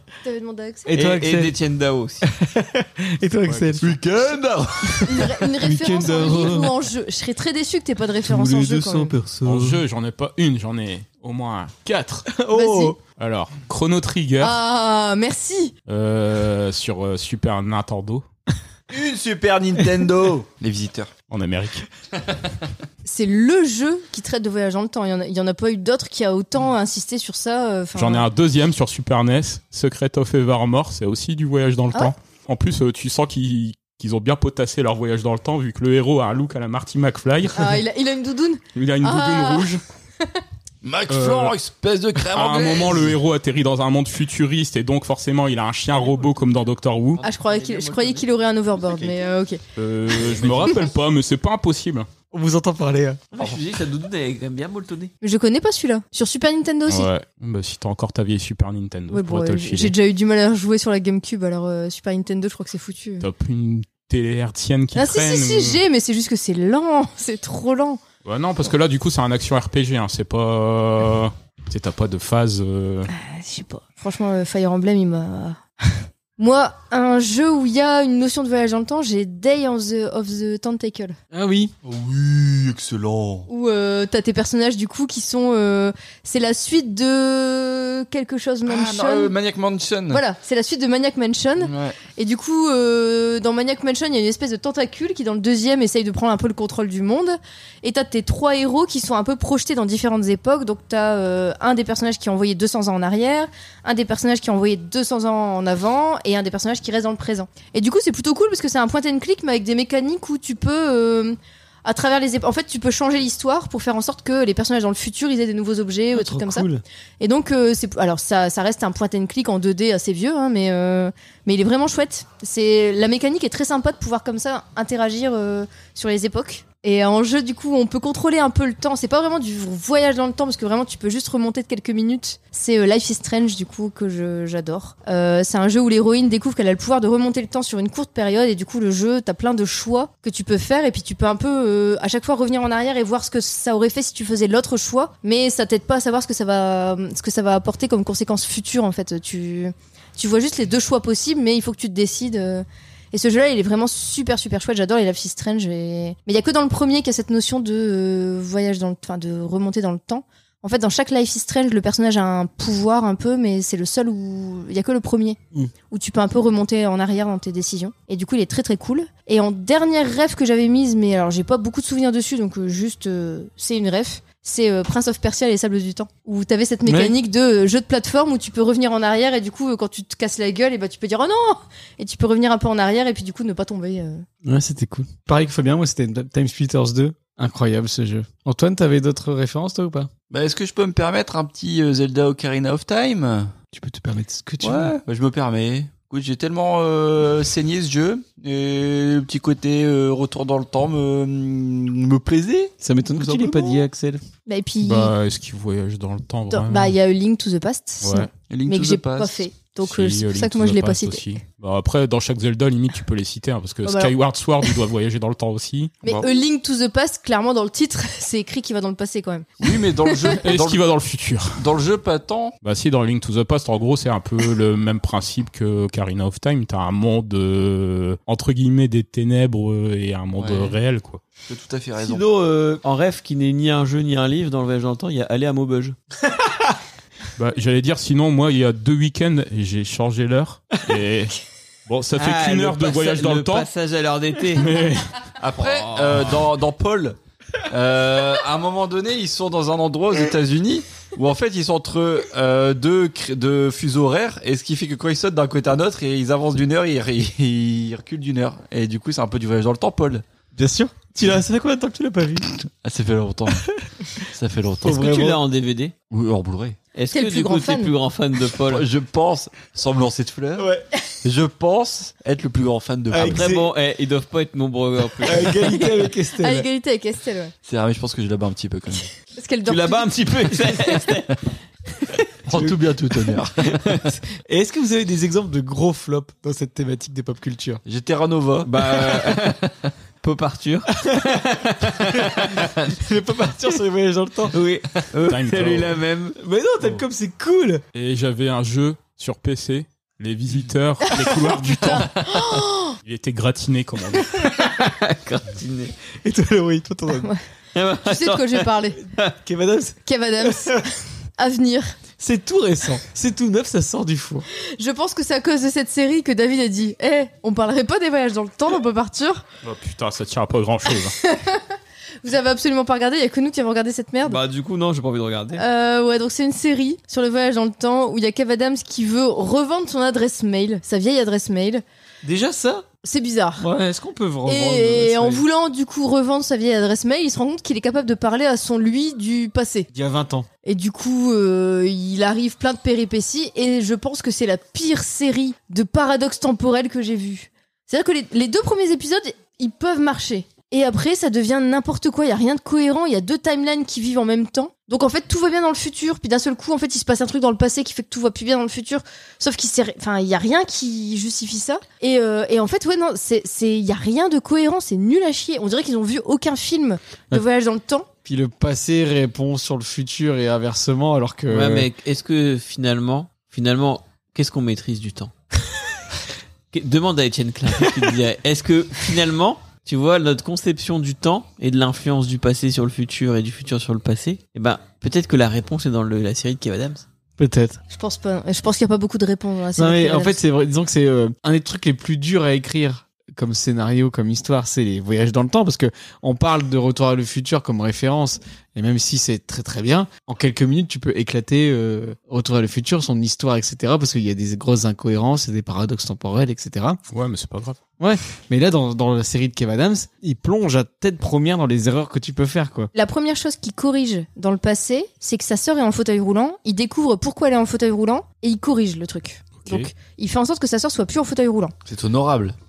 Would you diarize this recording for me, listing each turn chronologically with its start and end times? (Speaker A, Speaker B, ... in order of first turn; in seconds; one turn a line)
Speaker A: 0.2-0.9
Speaker B: 0.8-1.5
Speaker C: 0.9-2.2
Speaker B: 2.3-3.9
Speaker D: 3.4-4.0
Speaker E: 3.8-5.1
Speaker B: 5.0-6.7
Speaker A: 5.0-9.1
Speaker B: 8.2-9.8
Speaker D: 9.4-12.3
Speaker B: 12.3-12.9
Speaker A: 12.5-12.9
Speaker D: 13.1-14.6
Speaker A: 14.4-15.7
Speaker D: 15.9-18.2
Speaker E: 18.9-21.1
Speaker D: 21.3-21.9
Speaker A: 23.0-28.3
Speaker D: 27.9-37.8
Speaker A: 37.5-40.4
Speaker D: 38.7-39.8
Speaker E: 40.8-43.2
Speaker D: 41.1-41.5
Speaker D: 42.3-47.2
Speaker C: 45.9-46.5
Speaker C: 47.2-48.3
Speaker A: 47.2-49.6
Speaker C: 48.8-49.1
Speaker D: 49.8-52.1
Speaker B: 52.3-53.2
Speaker C: 53.3-55.1
Speaker A: 55.2-57.1
Speaker D: 56.9-59.9
Speaker A: 59.1-63.3
Speaker D: 63.2-65.8
Speaker A: 64.9-68.0
Speaker D: 68.2-73.1
Speaker A: 73.1-81.2
Speaker B: 81.3-81.7
Speaker E: 81.8-83.5
Speaker A: 83.5-89.3
Speaker E: 88.7-90.2
Speaker A: 90.1-116.7
Speaker E: 91.6-92.0
Speaker B: 116.1-116.8
Speaker A: 117.2-165.4
Speaker A: 165.9-184.2
Speaker B: 176.8-177.1
Speaker B: 184.4-190.1
Speaker E: 190.3-193.5
Speaker B: 193.7-194.9
Speaker E: 194.6-203.8
Speaker B: 202.8-204.2
Speaker A: 204.4-205.1
Speaker D: 204.8-206.9
Speaker A: 206.5-211.4
Speaker D: 208.0-208.3
Speaker E: 208.5-209.4
Speaker D: 209.8-216.0
Speaker A: 213.8-214.7
Speaker E: 216.0-216.3
Speaker A: 216.0-220.4
Speaker E: 219.6-220.8
Speaker D: 220.4-221.7
Speaker E: 221.6-222.6
Speaker D: 222.6-231.2
Speaker E: 230.3-230.8
Speaker E: 231.5-232.2
Speaker C: 232.0-235.9
Speaker D: 237.4-241.3
Speaker D: 241.9-243.7
Speaker C: 242.2-244.7
Speaker D: 244.5-245.1
Speaker E: 245.4-247.2
Speaker C: 245.6-246.4
Speaker E: 247.7-260.2
Speaker B: 260.6-262.5
Speaker E: 262.7-263.6
Speaker E: 264.3-265.0
Speaker B: 264.8-265.4
Speaker C: 264.8-265.9
Speaker E: 266.1-266.8
Speaker C: 266.9-268.9
Speaker A: 267.1-267.9
Speaker E: 268.6-270.7
Speaker B: 270.6-270.9
Speaker E: 271.2-273.4
Speaker B: 273.1-273.7
Speaker C: 273.2-275.8
Speaker B: 275.2-276.7
Speaker A: 275.7-277.5
Speaker E: 277.6-279.1
Speaker A: 279.3-280.1
Speaker C: 279.6-281.3
Speaker E: 282.5-283.9
Speaker B: 282.5-282.8
Speaker C: 283.7-284.0
Speaker B: 284.1-287.8
Speaker E: 287.9-289.7
Speaker C: 288.6-289.6
Speaker C: 290.2-292.7
Speaker B: 291.0-291.4
Speaker B: 293.0-294.5
Speaker C: 294.5-296.4
Speaker D: 295.2-296.0
Speaker B: 296.4-297.8
Speaker D: 297.9-302.3
Speaker A: 301.9-302.9
Speaker D: 303.0-304.3
Speaker C: 304.4-305.9
Speaker B: 306.2-307.3
Speaker C: 307.7-309.3
Speaker A: 308.1-309.0
Speaker B: 309.4-310.8
Speaker A: 310.1-310.8
Speaker A: 311.4-311.9
Speaker B: 312.2-314.4
Speaker A: 314.8-319.4
Speaker D: 319.6-321.1
Speaker A: 320.9-324.4
Speaker C: 324.2-325.6
Speaker A: 325.6-331.8
Speaker B: 332.2-332.9
Speaker A: 333.0-333.6
Speaker B: 333.6-335.4
Speaker A: 334.4-339.9
Speaker B: 339.9-340.5
Speaker A: 340.6-368.1
Speaker B: 368.2-371.9
Speaker C: 371.5-375.3
Speaker C: 376.7-387.0
Speaker B: 387.4-387.8
Speaker A: 387.9-390.4
Speaker B: 389.8-407.0
Speaker D: 407.1-407.8
Speaker B: 408.0-412.9
Speaker A: 412.9-421.7
Speaker D: 419.6-419.9
Speaker E: 421.9-422.5